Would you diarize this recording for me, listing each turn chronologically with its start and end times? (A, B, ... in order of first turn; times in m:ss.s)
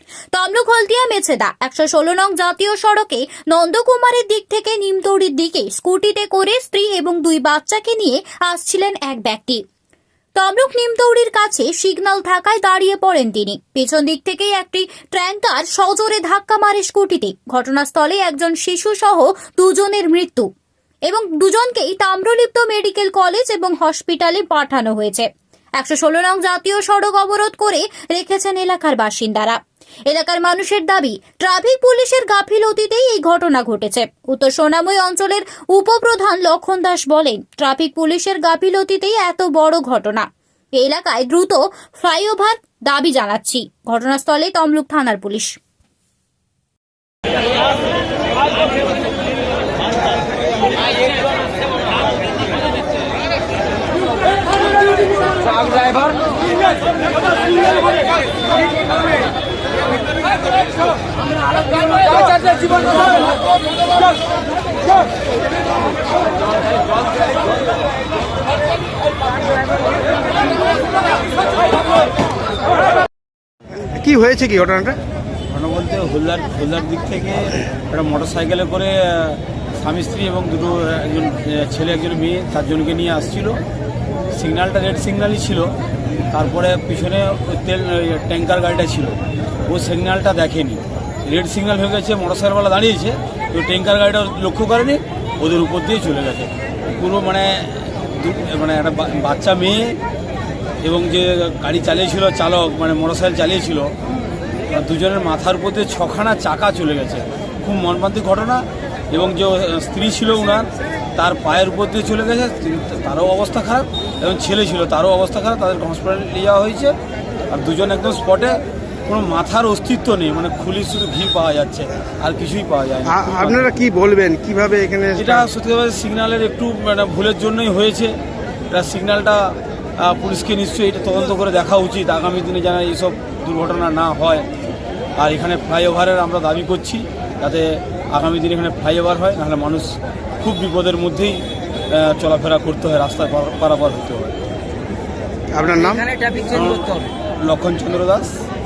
0:00.3-0:09.6 A
0:10.4-0:20.5 A
0:21.1-0:25.3 A
0:25.8-0:29.6 A
0:30.1-0:40.2 A
0:40.8-0:45.6 A
1:13.9-1:15.0 B
1:15.5-1:23.6 C
1:24.3-1:25.7 C
1:26.3-1:40.0 C
1:40.8-1:43.9 C
1:44.7-1:56.9 C
1:57.5-2:03.8 C
2:03.0-2:05.5 B
2:05.2-2:08.1 C
2:08.7-2:14.5 C
2:15.2-2:24.4 C
2:25.5-2:26.1 B
2:26.5-2:28.4 C